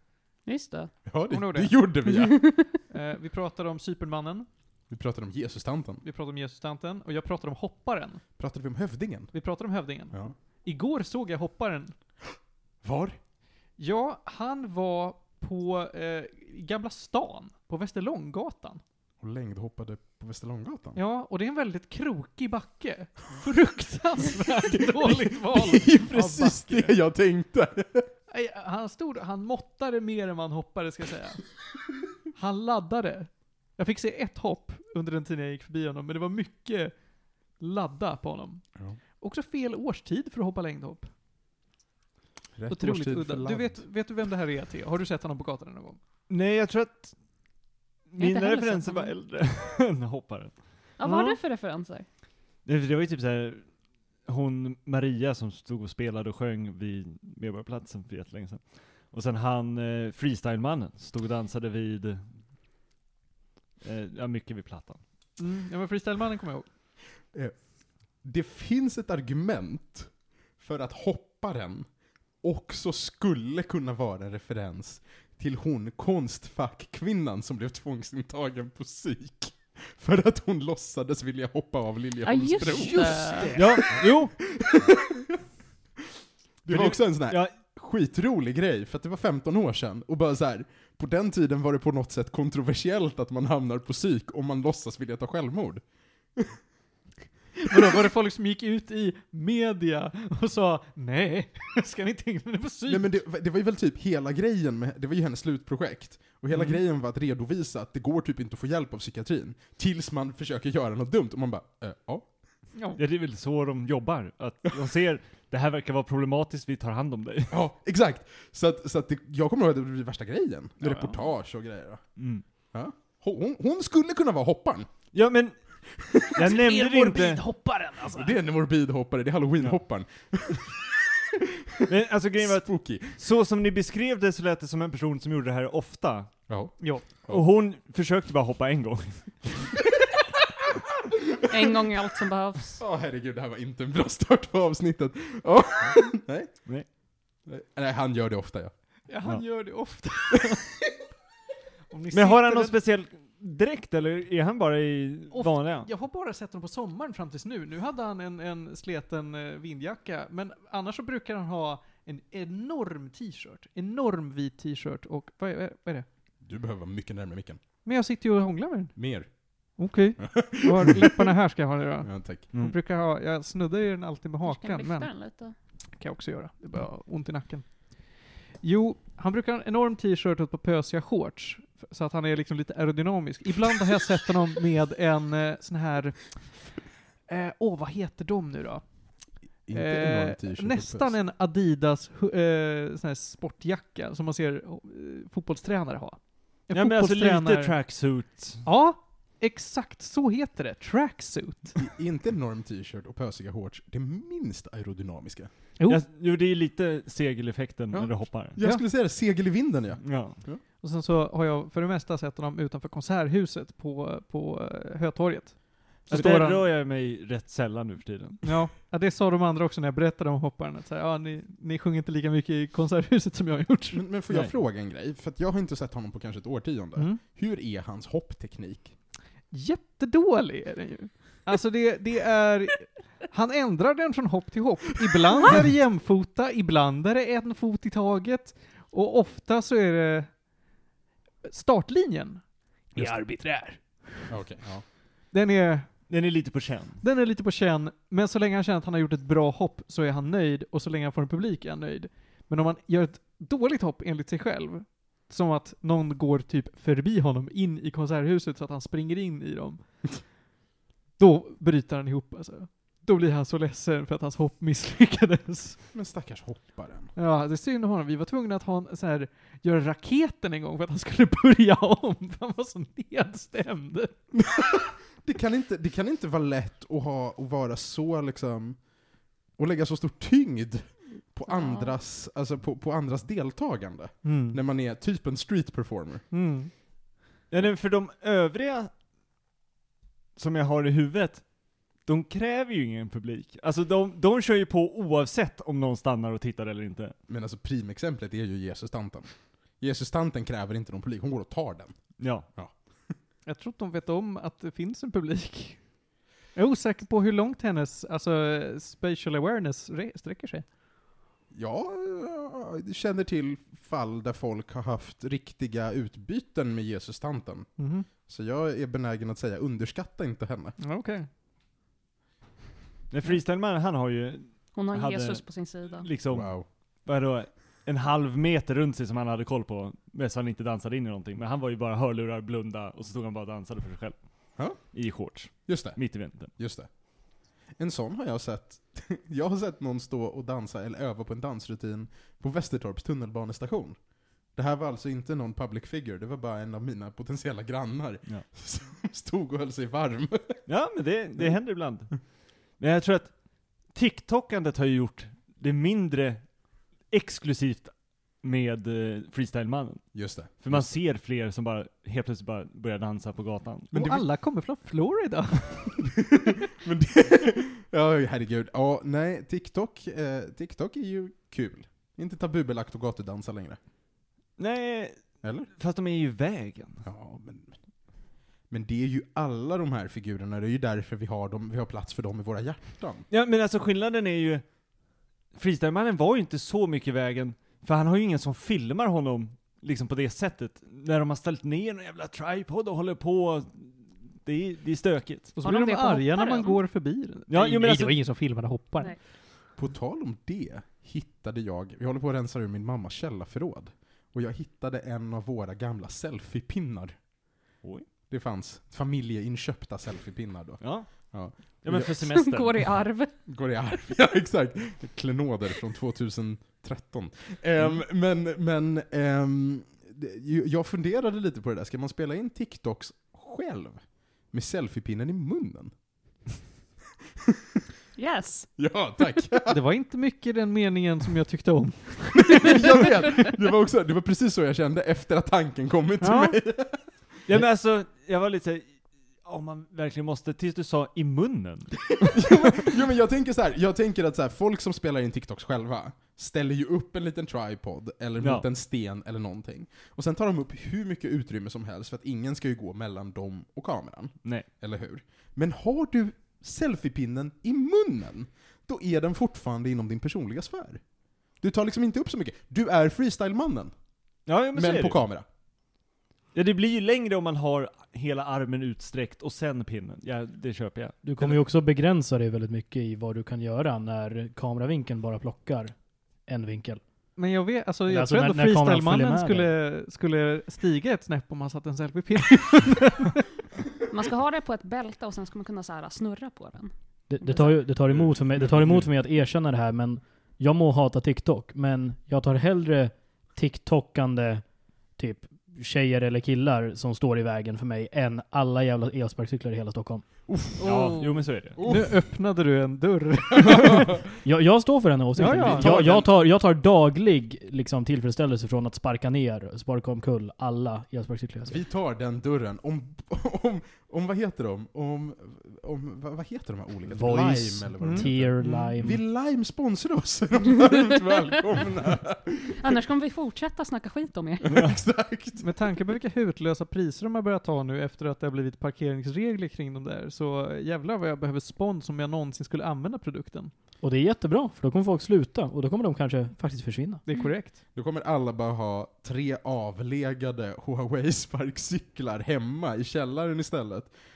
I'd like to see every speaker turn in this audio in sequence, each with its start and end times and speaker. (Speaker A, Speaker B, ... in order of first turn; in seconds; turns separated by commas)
Speaker A: 0.5-0.9, Speaker B: 1.0-2.5, Speaker C: 1.3-1.8, Speaker A: 2.1-2.6, Speaker C: 2.9-4.5, Speaker B: 4.9-6.0, Speaker C: 6.0-8.2, Speaker B: 8.4-9.3, Speaker C: 9.3-11.9, Speaker B: 12.8-13.2, Speaker C: 13.8-18.8, Speaker B: 19.2-21.0, Speaker C: 20.9-26.9, Speaker B: 24.7-28.1, Speaker C: 28.3-31.5, Speaker C: 32.3-37.0, Speaker C: 37.6-38.6, Speaker C: 39.2-41.1, Speaker B: 42.5-43.8, Speaker C: 42.7-46.0, Speaker D: 46.3-47.2, Speaker D: 48.1-51.4, Speaker A: 48.2-49.1, Speaker A: 51.0-52.0, Speaker D: 52.6-53.7, Speaker D: 54.3-62.2, Speaker D: 63.8-65.0, Speaker C: 65.4-66.7, Speaker B: 68.2-71.9, Speaker B: 72.4-85.0, Speaker A: 82.2-83.6, Speaker C: 82.7-83.9, Speaker D: 83.5-84.3, Speaker B: 86.6-95.8, Speaker D: 86.7-87.5, Speaker C: 97.6-103.1, Speaker B: 102.9-112.3, Speaker C: 106.5-106.8, Speaker C: 112.8-113.0, Speaker D: 113.0-117.6, Speaker B: 117.5-122.0, Speaker C: 120.8-121.2, Speaker D: 122.2-122.4, Speaker B: 122.7-124.9, Speaker D: 125.1-125.5, Speaker D: 126.1-127.4, Speaker C: 126.4-128.4, Speaker B: 128.1-131.0, Speaker D: 131.9-136.4, Speaker B: 132.4-133.2, Speaker B: 136.5-137.4, Speaker C: 136.8-137.0, Speaker D: 137.3-139.5, Speaker A: 141.5-142.8, Speaker B: 141.6-141.9, Speaker B: 142.8-146.5, Speaker B: 147.5-148.7, Speaker C: 149.1-150.7, Speaker C: 151.9-152.7, Speaker D: 152.1-155.9, Speaker C: 155.3-166.1, Speaker B: 166.4-167.6, Speaker C: 167.8-168.9, Speaker B: 168.9-169.3, Speaker C: 169.8-175.1, Speaker B: 170.2-171.3, Speaker B: 172.0-172.4, Speaker A: 174.4-175.5, Speaker C: 176.0-188.8, Speaker B: 189.7-191.1, Speaker C: 189.7-197.8, Speaker D: 196.7-198.6, Speaker C: 198.6-201.8, Speaker B: 201.8-205.5, Speaker D: 205.9-208.6, Speaker B: 207.9-210.6, Speaker C: 208.6-208.8, Speaker D: 210.0-210.4, Speaker C: 210.8-216.7, Speaker D: 216.1-218.5, Speaker C: 218.4-224.0, Speaker B: 223.9-228.9, Speaker C: 229.5-240.3, Speaker C: 241.4-244.3, Speaker B: 244.3-244.8, Speaker C: 245.3-245.9, Speaker D: 246.1-247.0, Speaker C: 247.0-260.3, Speaker C: 261.2-265.8, Speaker B: 265.9-267.1, Speaker C: 267.1-274.1, Speaker B: 274.3-278.9, Speaker B: 279.5-286.3, Speaker A: 281.5-281.9, Speaker C: 284.2-284.6, Speaker C: 286.3-286.7, Speaker D: 287.5-288.9, Speaker D: 290.4-291.5, Speaker D: 292.0-297.1, Speaker B: 297.3-302.7, Speaker D: 302.2-302.5, Speaker C: 303.5-305.8, Speaker C: 306.5-310.6, Speaker B: 311.5-320.8, Speaker C: 317.8-318.1, Speaker C: 320.8-321.3, Speaker D: 323.1-336.5, Speaker A: 324.7-326.1, Speaker B: 326.3-326.7, Speaker B: 335.6-336.9, Speaker B: 337.8-344.0, Speaker B: 344.5-350.7, Speaker D: 350.7-353.3, Speaker D: 353.9-356.5, Speaker D: 357.1-363.9, Speaker B: 360.1-361.0, Speaker B: 363.9-364.2, Speaker C: 363.9-366.1, Speaker B: 366.0-373.8, Speaker D: 374.6-377.1, Speaker B: 375.4-375.7, Speaker B: 377.0-377.8, Speaker B: 378.7-383.2, Speaker D: 383.3-384.6, Speaker D: 385.6-395.6, Speaker C: 395.6-399.1, Speaker A: 395.6-396.8, Speaker D: 397.5-398.2, Speaker B: 399.8-407.2, Speaker B: 408.3-412.2, Speaker D: 410.8-413.0, Speaker A: 412.3-413.4, Speaker B: 413.5-425.9, Speaker A: 428.2-428.7, Speaker B: 428.8-429.8, Speaker C: 429.7-433.0, Speaker B: 432.4-437.1, Speaker C: 436.2-436.6, Speaker D: 437.5-442.7, Speaker B: 442.3-461.0, Speaker D: 448.4-448.7, Speaker B: 461.6-463.9, Speaker D: 464.5-465.2, Speaker B: 464.8-465.4, Speaker D: 466.5-471.6, Speaker E: 471.2-475.9, Speaker E: 476.5-477.0, Speaker C: 477.4-483.3, Speaker E: 478.1-479.7, Speaker A: 484.1-486.9, Speaker E: 487.3-494.6, Speaker A: 487.4-487.8, Speaker E: 495.2-500.2, Speaker B: 500.5-500.9, Speaker A: 500.8-501.4, Speaker D: 500.8-501.8, Speaker B: 501.8-502.2, Speaker C: 501.8-504.2, Speaker B: 503.5-504.2, Speaker E: 504.4-511.8, Speaker C: 505.4-505.9, Speaker B: 505.6-506.3, Speaker B: 511.7-522.9, Speaker E: 517.1-519.2, Speaker C: 518.0-518.9, Speaker A: 522.8-524.8, Speaker B: 524.6-525.7, Speaker C: 525.6-533.7, Speaker E: 534.0-537.2, Speaker C: 537.2-537.8, Speaker B: 537.9-544.1